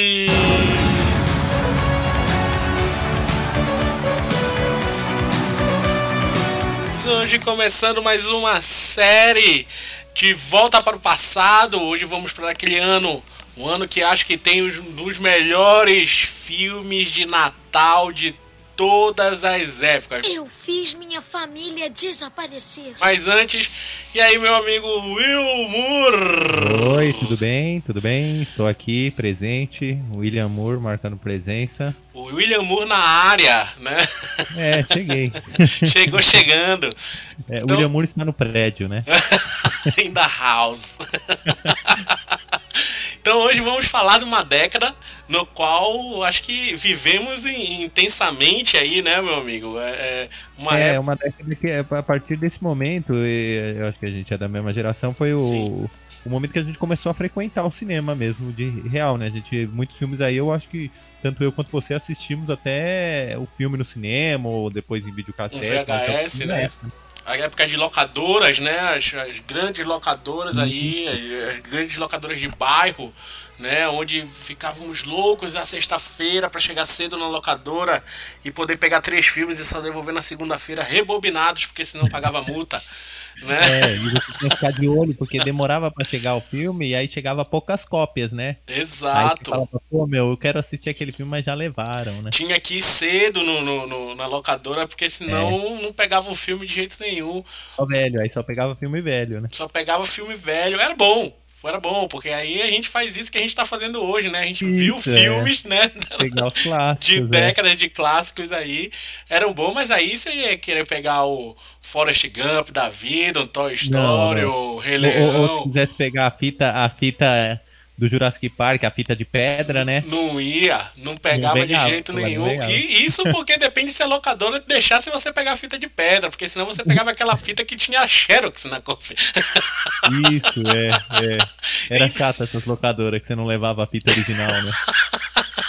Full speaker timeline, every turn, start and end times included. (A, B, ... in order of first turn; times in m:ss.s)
0:00.2-0:01.0 A
0:06.9-0:20.3 A
0:20.2-0:23.0 B
0:23.0-0:27.3 A
0:26.5-0:32.0 C
0:32.1-0:36.9 A
0:34.5-0:36.2 C
0:37.5-0:39.1 C
0:39.1-0:51.0 A
0:41.5-0:41.7 C
0:50.7-1:06.9 C
0:55.4-0:55.7 A
1:05.5-1:06.7 A
1:07.2-1:22.8 A
1:10.5-1:11.0 C
1:23.4-1:24.6 A
1:23.6-1:28.6 C
1:28.7-1:29.6 A
1:29.1-1:32.3 C
1:32.3-1:37.4 A
1:35.3-1:35.6 C
1:37.8-1:39.5 C
1:39.5-1:55.7 A
1:44.6-1:45.5 C
1:46.2-1:47.5 C
1:53.8-2:00.0 C
1:59.6-2:10.3 A
2:01.3-2:03.3 C
2:10.0-2:14.8 C
2:11.7-2:12.2 A
2:14.1-2:15.4 A